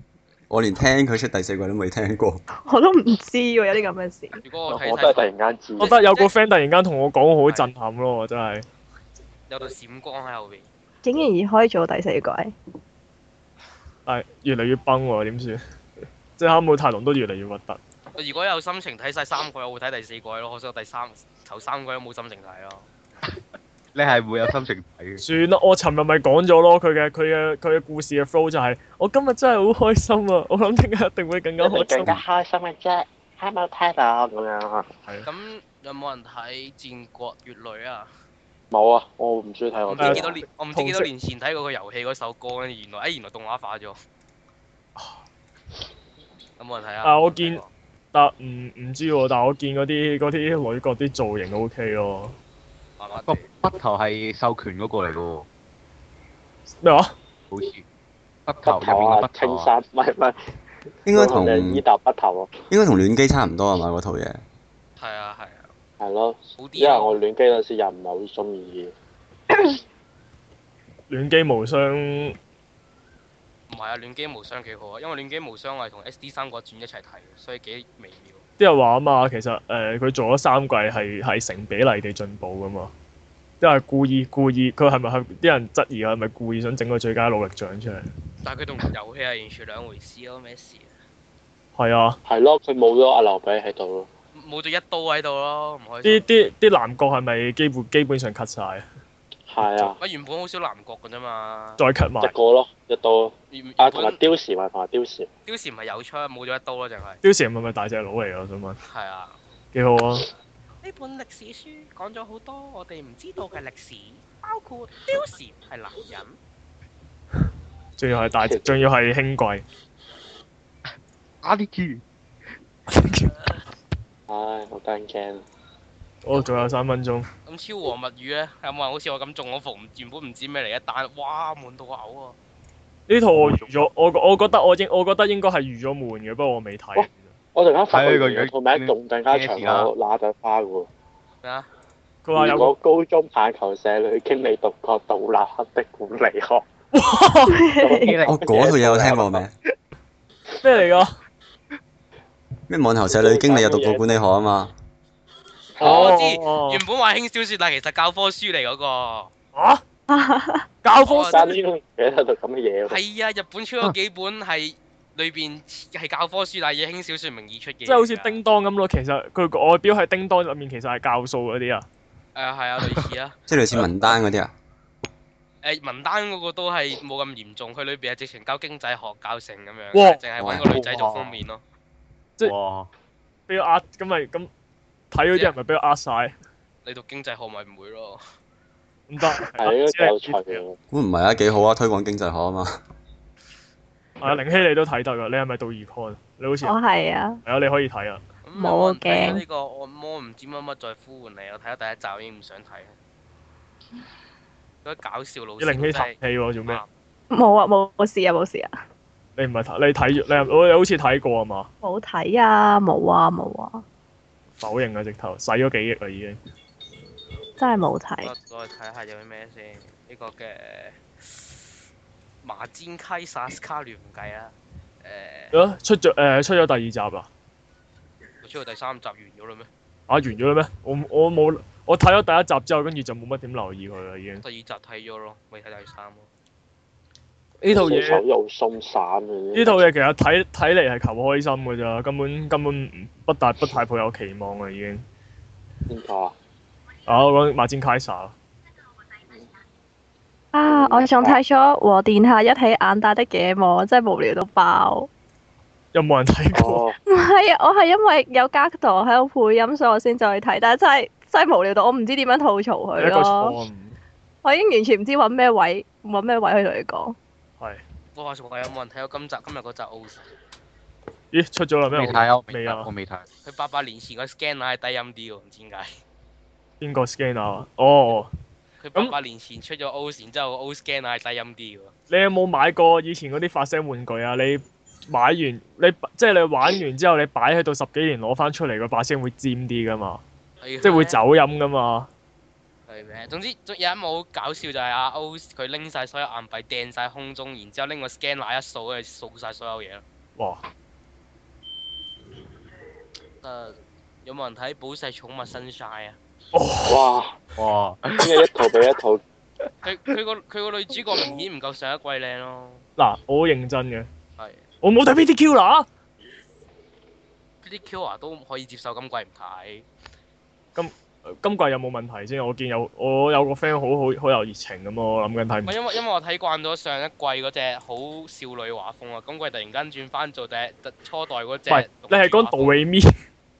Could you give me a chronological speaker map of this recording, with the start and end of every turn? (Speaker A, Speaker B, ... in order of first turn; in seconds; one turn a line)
Speaker A: 0.5-2.4
Speaker B: 2.5-4.4
Speaker C: 4.4-6.3
Speaker D: 4.7-5.9
Speaker E: 5.8-8.6
Speaker C: 9.5-10.7
Speaker B: 11.0-12.5
Speaker E: 14.1-15.6
Speaker E: 16.4-17.8
Speaker C: 18.1-22.9
Speaker F: 23.9-25.2
Speaker E: 25.2-32.1
Speaker D: 31.6-34.9
Speaker C: 35.2-38.1
Speaker D: 38.7-40.3
Speaker C: 39.9-44.0
Speaker E: 40.0-41.1
Speaker C: 46.6-47.7
Speaker E: 47.0-47.6
Speaker E: 48.1-52.3
Speaker C: 53.0-53.4
Speaker F: 53.2-55.5
Speaker E: 56.8-57.1
Speaker F: 57.5-57.8
Speaker F: 58.5-59.7
Speaker D: 58.6-60.4
Speaker A: 61.1-61.8
Speaker D: 61.1-62.5
Speaker A: 62.7-64.4
Speaker C: 65.0-65.7
Speaker D: 66.0-68.9
Speaker C: 66.6-67.2
Speaker E: 71.1-72.3
Speaker C: 73.7-78.4
Speaker E: 78.6-82.9
Speaker E: 83.6-88.0
Speaker C: 88.4-90.9
Speaker E: 91.8-92.2
Speaker D: 92.2-94.1
Speaker C: 94.3-96.2
Speaker E: 96.0-98.8
Speaker D: 99.5-100.0
Speaker E: 99.6-99.9
Speaker C: 100.0-101.8
Speaker E: 101.8-102.3
Speaker D: 102.2-105.3
Speaker C: 103.5-104.2
Speaker C: 105.5-107.2
Speaker E: 107.2-108.8
Speaker C: 108.8-109.3
Speaker E: 109.7-110.3
Speaker C: 110.8-116.4
Speaker E: 118.0-119.6
Speaker D: 118.4-118.7
Speaker F: 121.4-122.0
Speaker E: 122.9-123.3
Speaker D: 124.3-125.4
Speaker E: 126.2-127.3
Speaker C: 127.5-132.4
Speaker E: 133.1-137.3
Speaker D: 137.0-140.9
Speaker F: 137.9-139.9
Speaker C: 141.4-141.7
Speaker E: 142.2-142.7
Speaker D: 142.3-146.7
Speaker E: 146.9-147.6
Speaker B: 147.5-148.2
Speaker D: 147.8-149.4
Speaker F: 148.1-148.7
Speaker A: 148.2-149.5
Speaker E: 150.6-151.1
Speaker A: 152.7-154.7
Speaker D: 153.0-154.2
Speaker D: 155.8-156.1
Speaker C: 155.8-159.3
Speaker E: 155.8-156.8
Speaker E: 159.5-159.8
Speaker B: 160.1-160.7
Speaker E: 160.8-161.6
Speaker C: 161.1-161.5
Speaker D: 161.3-163.0
Speaker C: 162.9-168.4
Speaker E: 167.8-171.8
Speaker C: 172.3-173.3
Speaker A: 173.5-174.5
Speaker C: 175.6-181.6
Speaker E: 179.9-180.2
Speaker F: 180.4-181.4
Speaker F: 182.4-182.9
Speaker E: 183.5-184.5
Speaker E: 185.1-186.3
Speaker C: 186.8-188.2
Speaker E: 189.1-190.6
Speaker D: 189.6-190.8
Speaker A: 190.9-192.8
Speaker E: 194.2-196.8
Speaker B: 196.6-197.4
Speaker E: 197.4-198.2
Speaker C: 198.4-202.9
Speaker B: 198.6-199.4
Speaker C: 204.8-206.2
Speaker E: 205.6-206.8
Speaker B: 207.3-208.7
Speaker E: 209.4-211.7
Speaker B: 211.8-213.8
Speaker E: 214.6-216.4
Speaker B: 217.6-218.3
Speaker C: 218.2-221.6
Speaker C: 222.4-225.5
Speaker E: 225.5-227.3
Speaker C: 228.4-229.7
Speaker E: 230.1-234.4
Speaker C: 234.4-236.3
Speaker E: 237.6-238.2
Speaker D: 237.7-239.8
Speaker E: 239.5-245.0
Speaker D: 245.9-246.3
Speaker E: 247.1-248.3
Speaker B: 250.5-255.1
Speaker D: 250.7-251.4
Speaker E: 255.9-256.8
Speaker D: 256.5-257.0
Speaker B: 257.1-263.6
Speaker E: 263.0-264.0
Speaker B: 264.4-267.1
Speaker C: 268.1-270.3
Speaker E: 271.3-272.9
Speaker F: 271.9-273.2
Speaker C: 273.4-276.0
Speaker E: 276.8-278.3
Speaker C: 278.8-281.9
Speaker E: 282.1-290.2
Speaker C: 290.6-291.2
Speaker E: 290.8-292.1
Speaker C: 292.9-300.0
Speaker E: 300.4-300.6
Speaker C: 303.4-306.2
Speaker E: 306.5-307.1
Speaker D: 306.9-307.3
Speaker F: 307.6-308.7
Speaker D: 308.2-309.2
Speaker C: 309.8-312.8
Speaker E: 313.0-314.1
Speaker E: 314.8-315.9
Speaker C: 317.6-319.9
Speaker E: 320.8-325.7
Speaker C: 325.6-332.8
Speaker E: 331.7-333.1